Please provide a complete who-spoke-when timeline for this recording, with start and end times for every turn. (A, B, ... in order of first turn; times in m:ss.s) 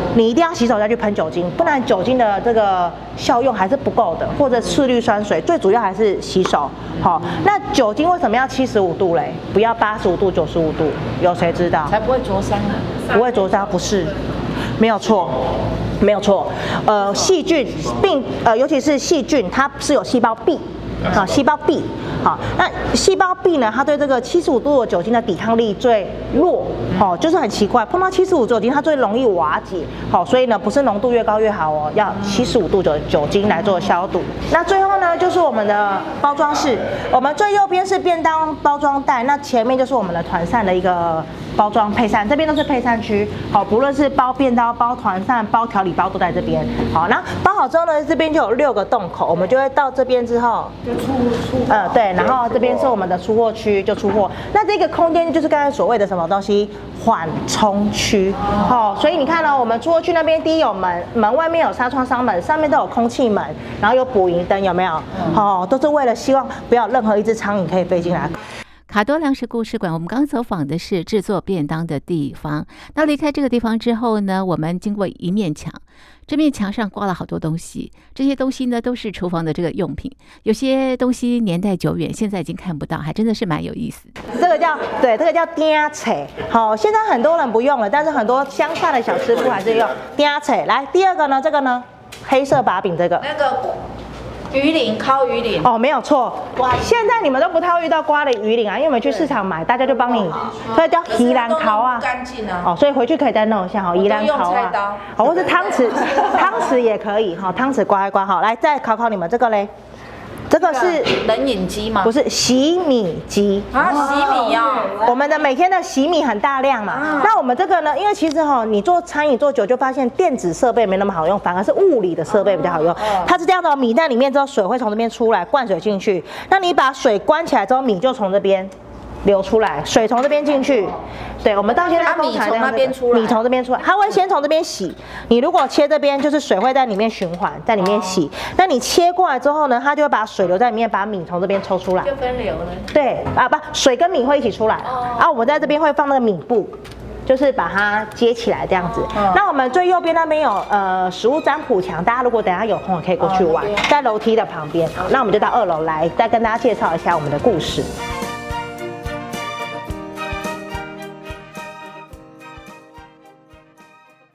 0:00.1-0:11.9 A
0:11.9-0:13.1 B
0:13.1-0:14.1 A
0:14.8-0:15.4 A
0:16.0-0:50.8 A
0:51.7-1:08.4 A
1:08.9-1:24.1 C
1:24.3-1:33.3 A
1:33.2-1:33.8 B
1:34.5-1:35.7 B
1:35.6-1:42.1 A
1:41.0-1:42.7 B
1:42.6-1:49.7 A
1:44.0-1:45.3 B
1:50.5-1:51.1 A
1:50.6-1:52.1 B
1:52.0-1:54.3 A
1:53.7-1:55.1 B
1:55.0-2:08.7 A
1:57.0-1:57.4 B
2:09.2-2:22.1 A
2:11.9-2:13.4 B
2:22.0-2:22.9 B
2:22.9-2:26.7 A
2:24.9-2:25.2 B
2:27.3-2:37.9 A
2:33.4-2:33.8 B